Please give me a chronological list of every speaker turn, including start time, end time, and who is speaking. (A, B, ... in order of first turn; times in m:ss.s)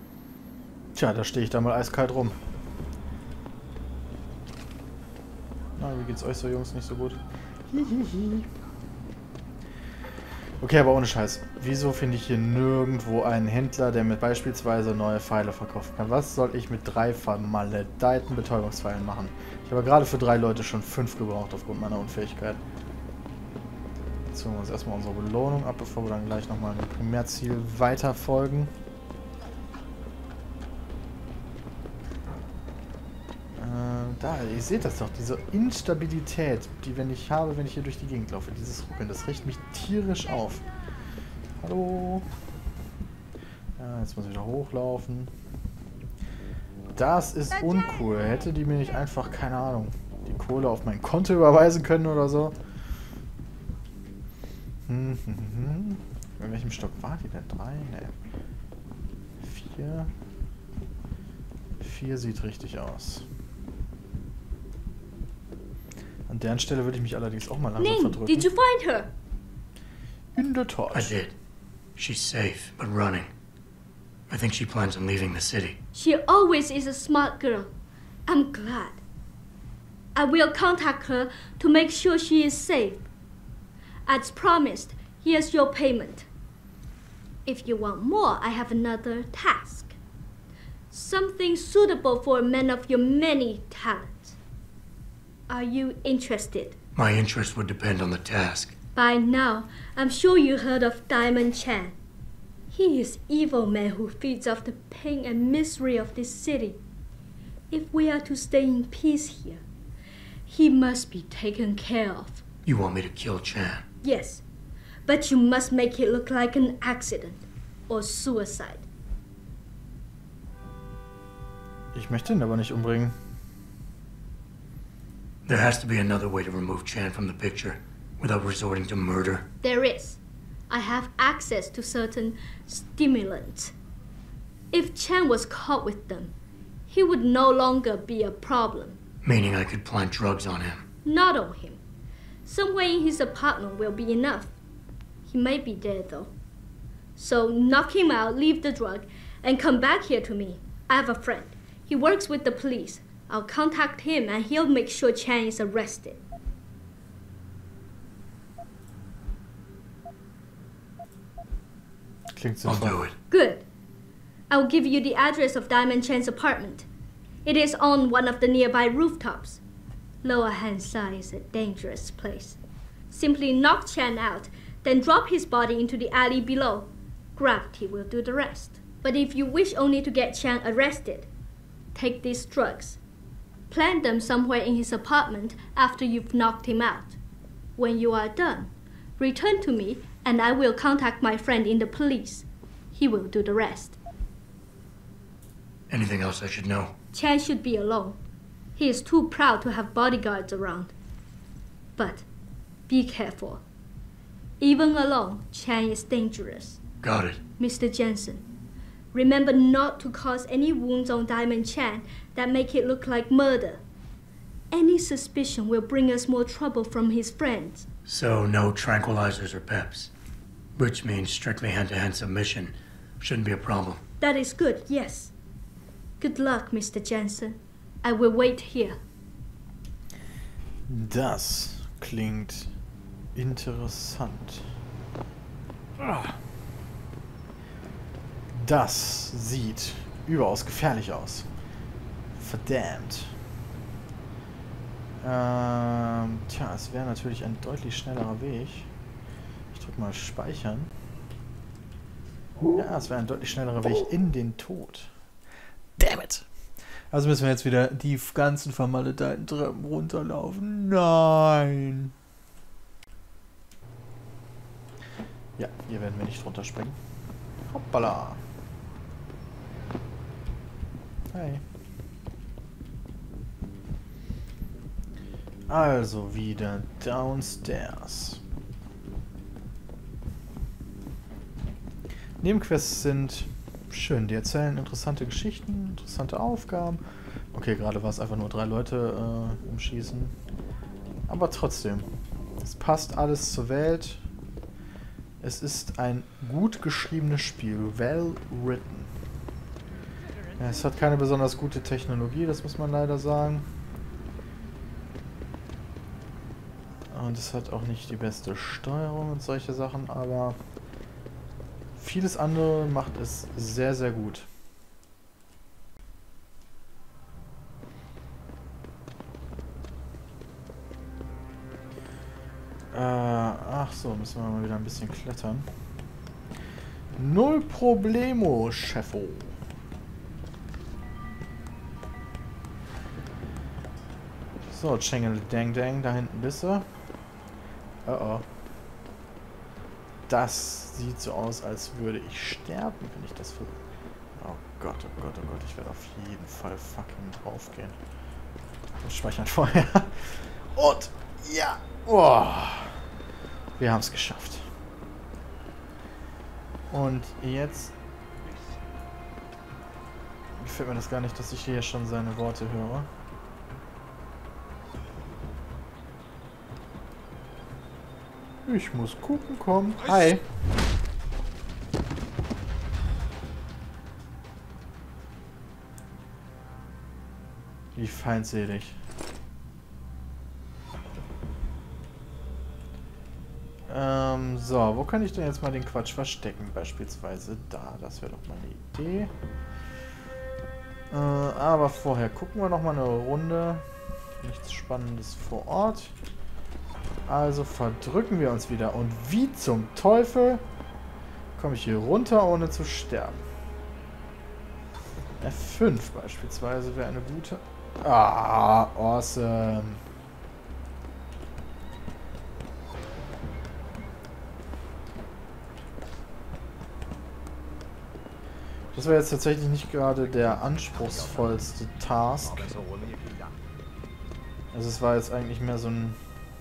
0:01.0-0:02.4 A
0:05.8-0:08.5 A
0:10.6-0:22.6 A
0:24.3-0:28.7 A
0:33.6-0:40.6 A
0:41.6-0:42.3 A
0:43.8-0:45.3 A
0:47.0-0:52.6 A
0:54.9-0:58.2 A
0:59.4-1:00.1 A
1:01.8-1:03.2 A
1:06.3-1:08.5 A
1:07.8-1:09.1 B
1:10.4-1:11.2 A
1:10.9-1:11.3 C
1:12.0-1:13.3 C
1:14.3-1:15.8 C
1:15.9-1:17.7 B
1:18.3-1:19.0 B
1:20.2-1:23.1 B
1:24.1-1:26.3 B
1:27.5-1:30.0 B
1:30.9-1:34.4 B
1:35.5-1:36.8 B
1:37.0-1:38.7 C
1:39.0-1:42.0 B
1:42.7-1:46.8 B
1:47.7-1:49.6 B
1:50.5-1:52.4 B
1:52.7-1:53.8 C
1:54.0-1:54.4 B
1:55.1-1:58.8 B
2:01.9-2:03.2 A
2:05.5-2:09.5 C
2:09.6-2:10.2 B
2:10.7-2:13.7 B
2:14.7-2:16.3 B
2:16.9-2:19.0 B
2:19.2-2:20.8 C
2:21.0-2:21.8 B
2:22.4-2:24.5 B
2:25.3-2:26.3 B
2:27.2-2:36.2 B
2:42.4-2:43.0 A
2:42.6-2:43.1 C
2:43.3-2:43.6 B
2:44.5-2:46.9 B
2:47.4-2:49.6 B
2:50.2-2:52.6 B
2:53.1-3:01.3 B
3:02.0-3:03.0 B
3:03.7-3:07.2 B
3:07.8-3:14.0 B
3:15.9-3:16.9 C
3:17.1-3:18.2 B
3:18.8-3:20.9 B
3:22.0-3:22.3 B
3:22.9-3:23.6 B
3:24.6-3:26.8 B
3:27.0-3:27.4 C
3:27.6-3:28.5 B
3:29.1-3:33.8 B
3:34.7-3:37.9 B
3:38.1-3:40.1 C
3:40.8-3:44.0 C
3:44.2-3:45.3 B
3:46.2-3:49.0 B
3:50.9-3:52.7 A
3:53.4-3:54.6 A
3:56.0-3:56.4 A
3:58.5-4:01.5 A
4:02.4-4:03.3 A
4:05.2-4:08.9 A
4:09.7-4:10.9 A
4:12.7-4:15.1 A
4:16.0-4:16.5 A
4:17.1-4:22.1 A
4:25.6-4:27.0 A
4:27.7-4:28.4 A
4:31.3-4:31.6 A
4:35.7-4:38.4 A
4:42.4-4:47.0 A
4:47.5-4:50.3 A
4:51.3-4:52.1 A
4:52.6-4:54.2 A
4:55.4-4:59.1 A
5:00.6-5:03.7 A
5:07.1-5:10.6 A
5:12.0-5:14.5 A
5:22.9-5:25.7 A
5:27.2-5:29.5 A
5:34.6-5:36.9 A
5:38.1-5:38.4 A
5:40.3-5:43.8 A
5:44.4-5:48.0 A
5:49.0-5:53.0 A
5:53.8-5:54.6 A
5:56.9-5:57.9 A
6:00.6-6:03.1 A
6:08.7-6:10.4 A
6:18.0-6:19.0 A
6:23.9-6:29.3 A
6:31.1-6:33.8 A
6:34.4-6:36.1 A
6:37.3-6:40.6 A
6:41.6-6:43.4 A
6:45.4-6:50.0 A
6:58.9-7:02.7 A
7:04.7-7:06.2 A